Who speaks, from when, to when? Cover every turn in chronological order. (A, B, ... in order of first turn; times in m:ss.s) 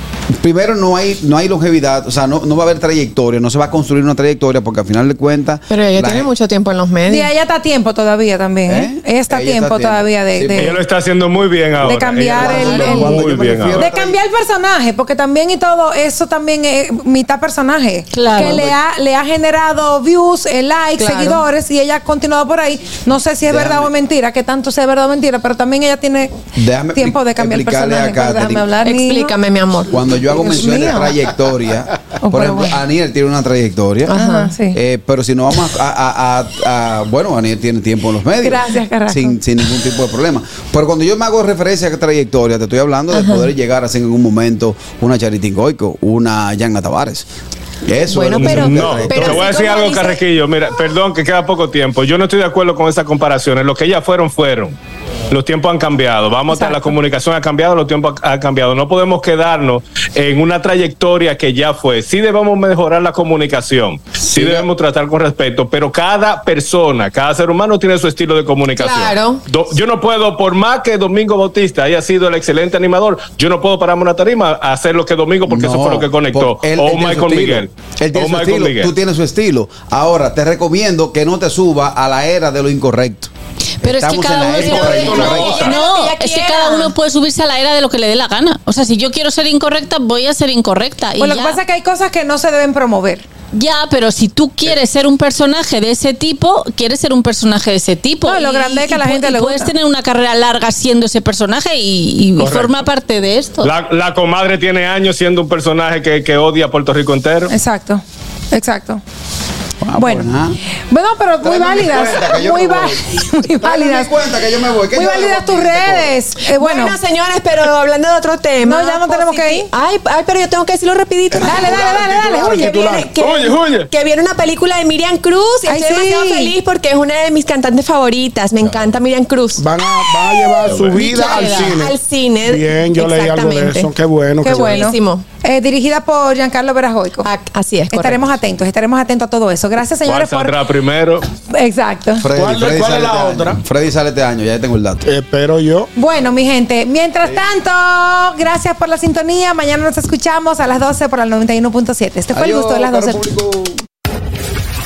0:00.4-0:06.3 A
0:05.7-0:07.3 B
0:07.1-0:10.8 C
0:08.7-0:10.8 A
0:10.5-0:13.9 D
0:11.8-0:26.4 C
0:11.9-0:14.2 A
0:18.1-0:18.7 E
0:18.4-0:18.7 A
0:21.0-0:21.4 B
0:23.4-0:23.9 A
0:26.6-0:28.7 A
0:27.0-0:29.4 C
0:28.8-0:30.0 B
0:29.9-0:34.2 A
0:30.3-0:31.3 C
0:32.2-0:32.8 C
0:34.0-0:34.5 B
0:34.1-0:34.8 C
0:34.7-0:47.3 A
0:38.4-0:39.4 C
0:43.1-0:43.5 B
0:47.8-0:49.6 A
0:48.0-0:50.2 B
0:48.2-0:54.8 D
0:55.3-1:18.9 D
0:56.5-0:57.0 C
1:04.2-1:04.7 A
1:08.8-1:09.4 B
1:15.5-1:25.7 A
1:23.8-1:31.6 E
1:24.6-1:26.9 B
1:25.3-1:25.7 D
1:31.2-1:33.2 C
1:33.5-1:43.7 E
1:38.2-1:39.7 C
1:42.4-1:42.8 D
1:43.6-1:47.5 D
1:47.5-1:49.0 C
1:49.8-1:50.6 A
1:50.0-1:54.1 C
1:51.4-1:53.0 A
1:53.6-1:56.2 A
1:54.9-1:57.0 C
1:56.5-2:01.7 B
1:58.6-1:59.7 C
2:01.3-2:03.1 F
2:01.4-2:03.1 C
2:03.1-2:09.6 B
2:03.2-2:03.9 D
2:05.7-2:06.5 C
2:08.6-2:08.9 A
2:09.6-2:14.9 F
2:10.7-2:11.1 D
2:11.0-2:13.9 B
2:11.4-2:11.7 E
2:14.4-2:17.3 C
2:14.4-2:15.2 B
2:17.2-2:18.3 B
2:17.9-2:20.6 C
2:20.0-2:21.3 D
2:21.5-2:22.3 C
2:22.2-2:25.1 A
2:22.3-2:23.6 F
2:25.1-2:25.9 F
2:26.0-2:33.2 C
2:32.3-2:33.8 A